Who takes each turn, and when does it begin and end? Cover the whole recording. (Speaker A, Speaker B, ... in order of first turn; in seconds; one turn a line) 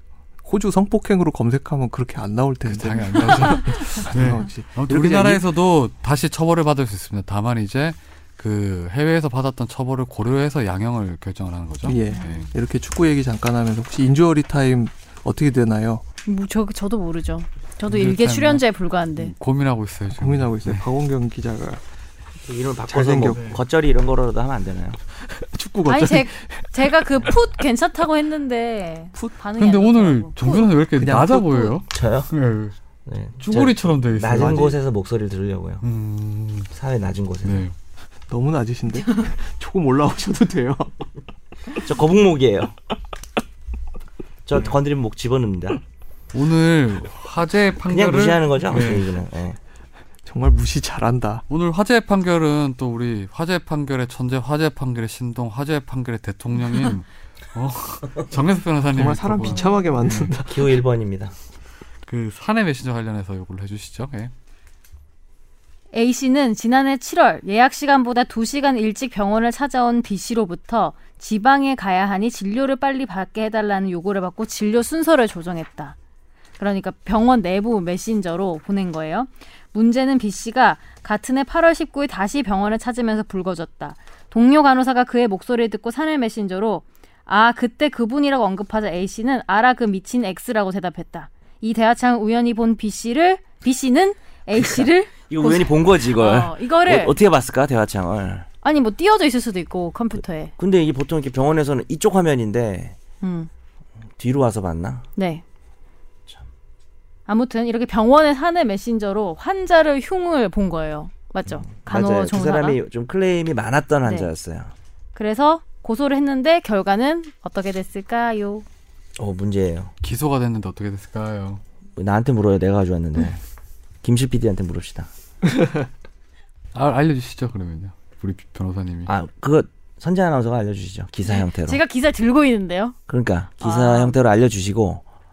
Speaker A: 0.4-5.4
Speaker B: 2.6-12.5
Speaker A: 11.8-16.0
Speaker C: 12.1-12.3
Speaker C: 16.2-19.3
Speaker B: 17.9-20.9
Speaker A: 20.1-21.8
Speaker D: 22.4-25.0
Speaker A: 22.9-23.6
Speaker B: 23.3-23.6
Speaker A: 25.2-27.3
Speaker C: 25.9-30.7
Speaker B: 29.6-32.7
Speaker A: 30.9-31.8
Speaker D: 31.9-32.3
Speaker D: 33.0-35.8
Speaker B: 33.4-34.8
Speaker B: 35.8-36.7
Speaker D: 36.7-37.6
Speaker B: 37.4-37.7
Speaker A: 38.3-41.1
Speaker D: 41.7-42.8
Speaker D: 44.5-45.8
Speaker B: 46.3-49.1
Speaker D: 47.9-49.6
Speaker A: 50.2-51.4
Speaker B: 51.5-60.3
Speaker A: 58.9-60.8
Speaker C: 59.4-59.9
Speaker D: 60.4-61.3
Speaker B: 62.1-64.3
Speaker C: 65.9-76.0
Speaker C: 76.6-97.2
Speaker D: 94.5-98.5
Speaker C: 98.6-100.5
Speaker D: 100.6-103.0
Speaker C: 103.2-103.5
Speaker D: 104.2-105.0
Speaker C: 105.2-105.4
Speaker C: 107.3-112.8
Speaker D: 111.5-114.7
Speaker C: 114.0-114.3
Speaker C: 115.1-118.6
Speaker D: 119.2-119.9
Speaker B: 120.0-121.6
Speaker D: 122.0-123.4
Speaker D: 124.0-125.1
Speaker A: 125.5-125.8
Speaker B: 126.7-129.1
Speaker D: 129.1-131.8
Speaker C: 131.2-132.9
Speaker D: 133.1-135.0
Speaker C: 133.6-134.2